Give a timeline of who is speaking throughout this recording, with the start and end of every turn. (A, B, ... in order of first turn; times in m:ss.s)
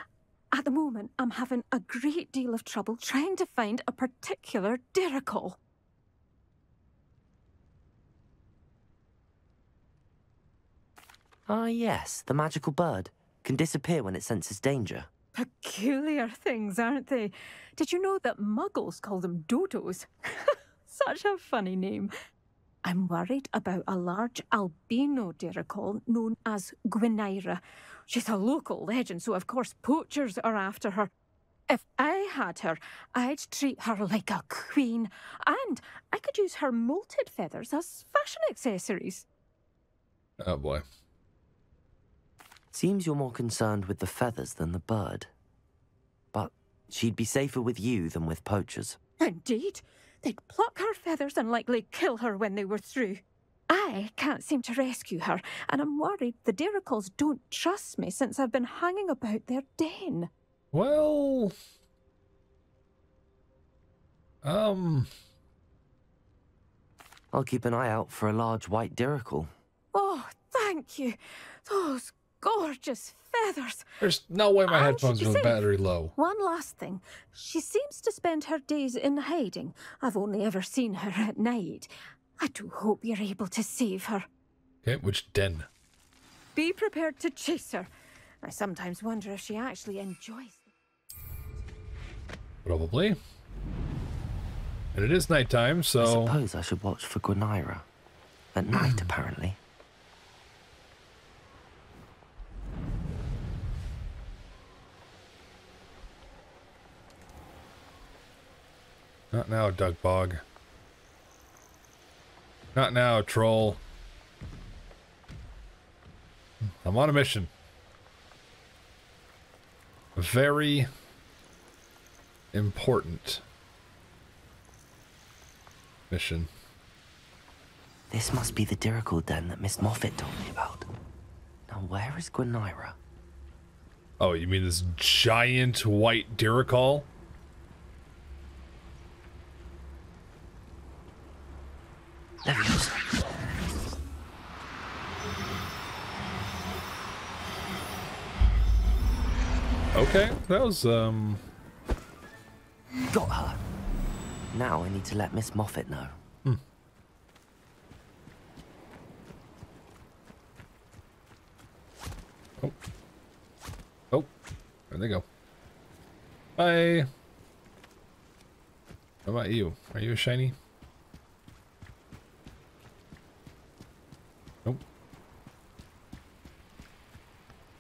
0:00.5-0:05.6 A
0:11.5-0:15.1 B
0:15.4-0:22.1 A
0:22.8-0:31.1 A
0:31.7-0:39.2 A
0:40.4-0:40.8 C
0:42.7-0:45.3 B
0:46.3-0:49.0 B
0:49.2-1:00.3 A
1:00.7-1:01.5 C
1:04.4-1:05.1 C
1:07.3-1:09.5 B
1:09.9-1:13.8 A
1:14.0-1:16.1 C
1:14.7-1:15.6 A
1:16.2-1:24.2 A
1:24.8-1:25.7 C
1:26.5-1:27.9 A
1:28.4-1:30.7 A
1:32.6-1:33.2 C
1:34.9-1:36.4 C
1:36.0-1:37.8 B
1:38.5-1:39.6 B
1:49.3-1:50.4 C
1:52.7-1:53.8 C
1:56.6-1:57.5 C
2:00.2-2:00.9 C
2:02.5-2:03.4 C
2:06.1-2:06.5 C
2:08.1-2:10.9 B
2:11.7-2:13.0 B
2:14.2-2:17.1 C
2:22.4-2:23.0 B
2:29.9-2:31.4 C
2:33.1-2:33.6 B
2:34.5-2:36.2 B
2:44.9-2:45.2 C
2:46.6-2:47.1 C
2:49.2-2:50.5 C